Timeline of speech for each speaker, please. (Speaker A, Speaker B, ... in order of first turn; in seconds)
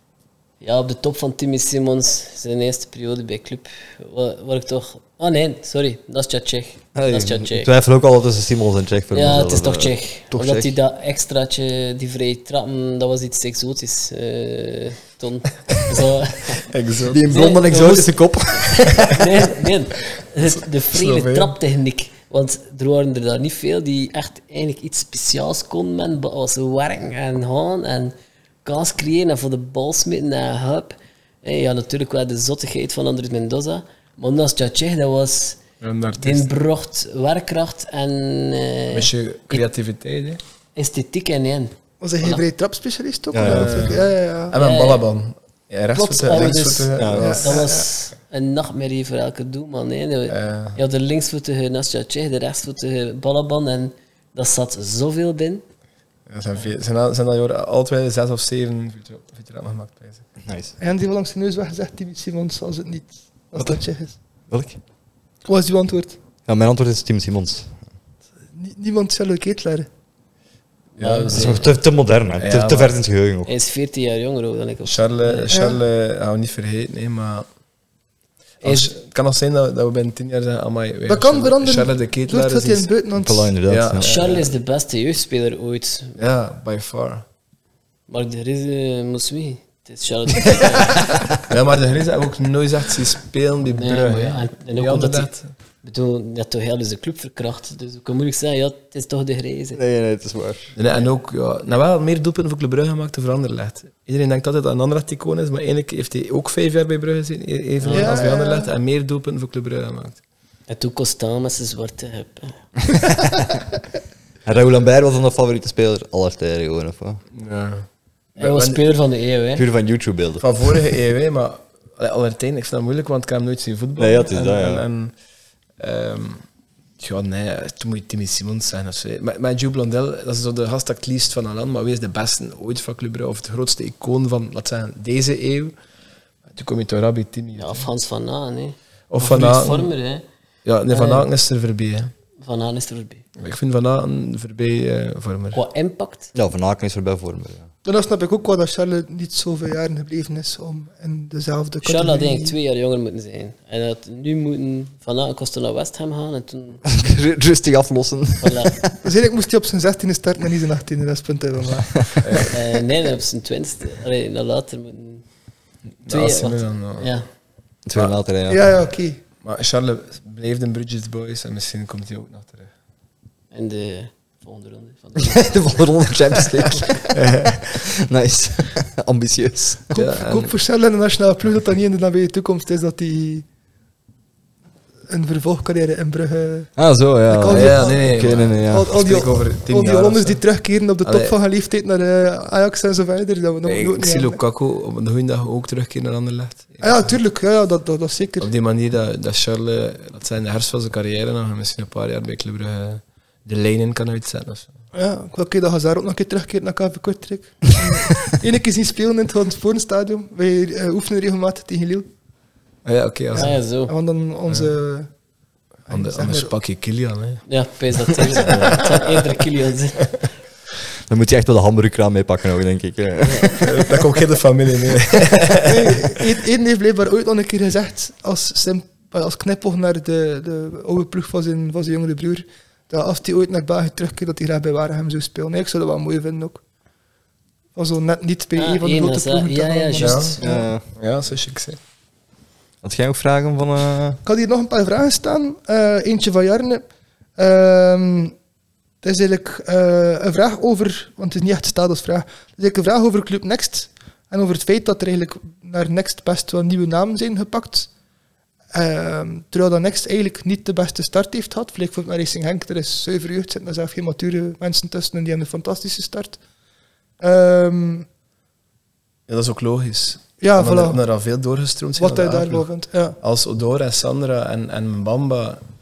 Speaker A: 0.6-7.7, 9.1-16.7, 17.3-28.1, 28.6-35.6, 36.2-39.6, 40.8-42.4, 44.5-45.0, 46.0-55.6, 71.0-71.7, 73.4-75.6, 78.6-78.9, 84.0-86.2, 88.1-91.2, 93.7-95.3, 95.8-99.8, 107.8-108.2, 110.7-112.6, 118.4-119.7, 137.6-140.2, 140.9-141.2, 142.4-143.2, 145.5-146.3, 151.8-156.8, 158.4-158.7, 162.5-165.2, 166.1-167.2, 173.5-175.6, 213.3-213.9, 217.5-220.2, 223.2-223.6, 238.6-240.4
Speaker B: 7.0-10.7, 17.1-19.2, 43.3-44.0, 47.0-47.2, 60.5-60.7, 64.5-64.8, 66.5-67.7, 71.3-73.5, 83.1-84.1, 99.8-100.7, 112.9-113.7, 114.4-117.2, 119.5-120.5, 124.0-124.8, 146.3-147.7, 156.9-159.0, 167.8-168.6, 175.2-179.9, 186.8-188.9, 221.1-223.9, 240.4-240.8, 242.8-244.2
Speaker C: 16.6-17.3, 20.4-21.6, 35.8-36.5, 38.9-40.4, 43.4-47.6, 50.3-50.8, 56.3-60.2, 71.0-71.5, 72.4-73.0, 74.8-77.5, 78.6-82.9, 83.7-84.5, 86.2-87.2, 91.5-95.5, 100.7-110.2, 117.3-117.8, 118.4-118.8, 120.4-125.1, 125.8-126.4, 127.0-135.7, 136.5-137.9, 139.1-139.9, 140.6-142.1, 143.4-145.6, 162.2-162.6, 166.0-167.1, 169.4-172.7, 177.1-177.6, 179.9-180.5, 187.5-190.4, 191.0-191.3, 193.6-197.2, 198.4-204.7, 212.8-213.6, 215.9-217.4, 218.0-219.2, 223.6-226.1, 240.0-240.4, 240.9-241.8, 269.3-272.7, 273.2-275.6
Speaker D: 42.0-44.6, 46.2-46.5, 47.2-47.9, 60.8-64.2, 65.5-66.2, 68.5-69.9, 75.5-75.8, 81.1-83.5, 107.9-108.7, 147.8-152.5, 159.0-162.5, 168.5-169.2, 179.9-183.4, 185.1-186.7, 187.3-194.4, 196.8-198.5, 204.9-212.1, 213.4-215.1, 215.8-216.5, 225.6-236.6, 237.8-240.6, 244.2-246.8, 247.4-248.3, 249.0-257.9, 258.7-266.4, 267.2-268.1, 270.4-271.0, 272.0-273.2